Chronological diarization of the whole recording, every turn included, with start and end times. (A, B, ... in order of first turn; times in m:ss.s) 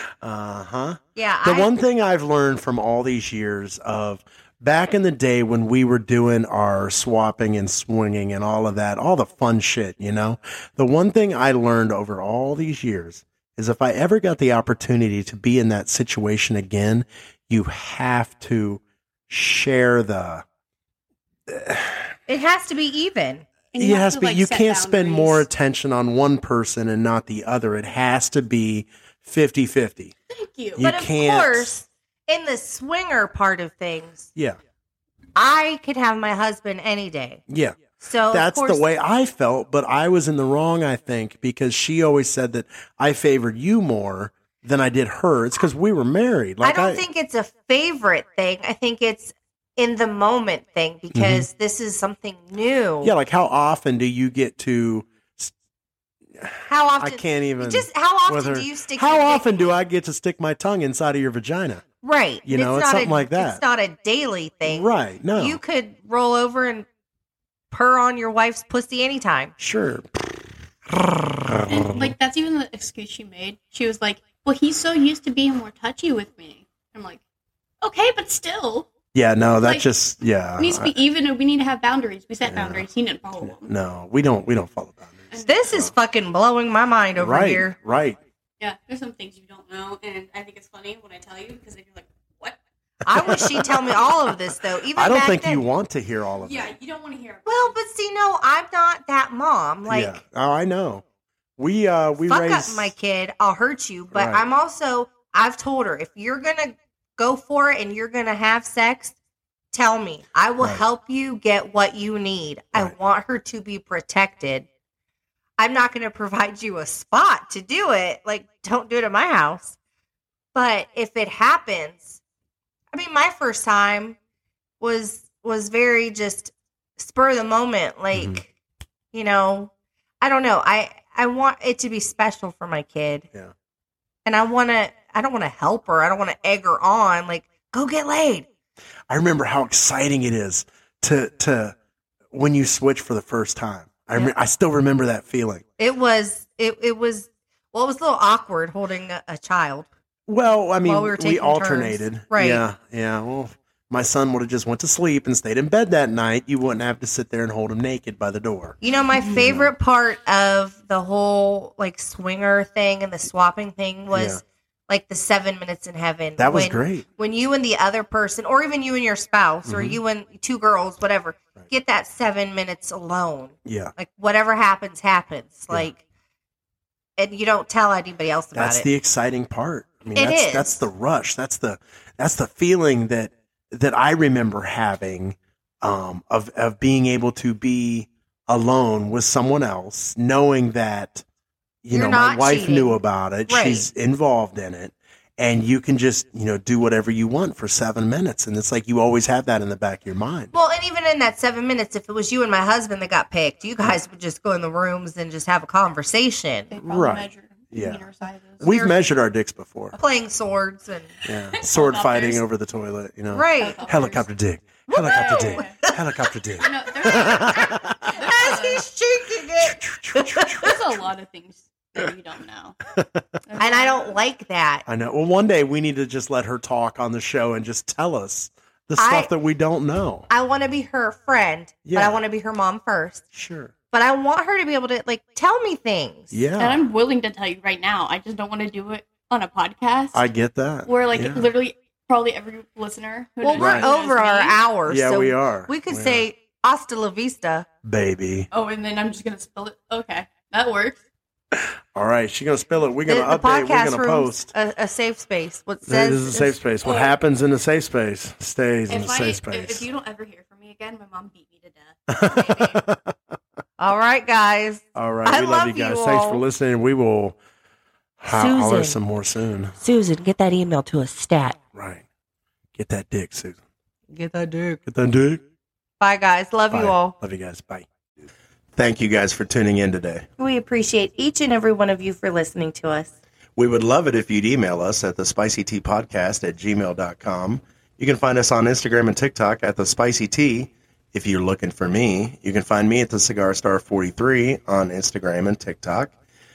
0:00.2-0:20.4 A
0:01.2-0:01.7 B
0:21.5-0:22.1 A
0:22.3-0:23.4 B
0:23.7-0:25.4 C
0:23.8-0:30.1 A
0:30.3-0:30.8 C
0:30.8-0:31.8 A
0:30.8-0:34.3 B
0:35.3-0:37.4 B
0:37.5-0:47.0 A
0:38.0-0:38.8 B
0:46.6-0:53.1 B
0:51.1-0:51.4 A
0:53.0-0:55.5 A
0:56.4-1:01.8 A
0:56.7-0:59.5 B
1:02.0-1:06.9 B
1:02.4-1:03.6 A
1:04.7-1:05.6 A
1:07.7-1:09.5 B
1:09.6-1:10.5 A
1:11.0-1:12.1 A
1:11.7-1:17.2 C
1:17.8-1:18.9 C
1:19.1-1:20.9 A
1:20.6-1:23.7 C
1:22.4-1:22.8 A
1:23.4-1:25.9 A
1:25.3-1:25.6 C
1:25.4-1:27.8 B
1:27.2-1:28.2 A
1:28.6-1:32.6 C
1:33.0-1:35.6 B
1:33.1-1:33.6 C
1:33.2-1:34.1 A
1:34.9-1:36.7 A
1:36.4-1:37.8 C
1:37.4-1:40.2 B
1:39.9-1:41.0 A
1:41.6-1:42.9 A
1:42.3-1:49.2 B
1:44.1-1:44.4 A
1:49.7-1:54.7 B
1:55.6-1:59.8 B
2:00.5-2:02.2 B
2:02.9-2:04.2 B
2:04.8-2:08.5 B
2:08.1-2:08.4 A
2:09.1-2:13.3 B
2:14.2-2:18.5 B
2:19.1-2:21.8 A
2:22.3-2:25.6 A
2:25.8-2:29.9 B
2:30.3-2:38.8 A
2:30.8-2:32.6 B
2:38.8-2:56.0 B
2:39.3-2:39.7 A
2:44.1-2:44.4 A
2:46.4-2:47.0 A
2:49.6-2:50.0 A
2:53.6-2:53.9 A
2:57.2-2:58.9 B
2:58.5-3:11.2 A
3:00.1-3:00.8 B
3:11.8-3:20.5 A
3:11.9-3:13.8 B
3:20.5-3:26.7 B
3:26.7-3:28.9 C
3:26.8-3:28.0 A
3:28.6-3:30.0 A
3:28.6-3:28.9 B
3:30.0-3:31.1 B
3:31.2-3:38.2 A
3:31.5-3:32.4 C
3:33.3-3:33.9 B
3:33.6-3:34.2 C
3:34.9-3:36.0 B
3:35.0-3:35.8 C
3:36.6-3:38.8 C
3:38.1-3:40.8 B
3:39.6-3:40.9 A
3:40.6-3:42.8 C
3:42.9-3:43.3 A
3:43.4-3:44.2 C
3:43.6-3:44.8 B
3:44.8-3:50.3 A
3:49.0-3:49.3 B
3:50.3-3:53.2 B
3:51.8-3:52.2 A
3:53.3-3:53.7 A
3:53.9-3:56.3 B
3:56.3-3:56.8 A
3:56.6-4:00.2 C
4:00.1-4:01.5 A
4:00.8-4:04.6 C
4:03.4-4:07.6 B
4:03.6-4:03.9 A
4:04.9-4:06.2 A
4:07.8-4:08.5 A
4:08.5-4:11.0 C
4:11.9-4:14.5 A
4:13.1-4:16.6 B
4:15.8-4:19.8 A
4:16.8-4:17.2 C
4:18.9-4:22.8 C
4:22.1-4:23.1 A
4:23.8-4:26.4 B
4:24.9-4:27.4 A
4:28.2-4:29.8 A
4:28.3-4:29.0 B
4:29.8-4:31.6 B
4:31.7-4:32.0 A
4:32.7-4:33.6 A
4:34.1-4:34.8 B
4:34.8-4:35.4 A
4:36.0-4:37.1 B
4:36.7-4:37.9 A
4:38.8-4:40.3 A
4:40.4-4:43.1 B
4:43.6-4:56.1 A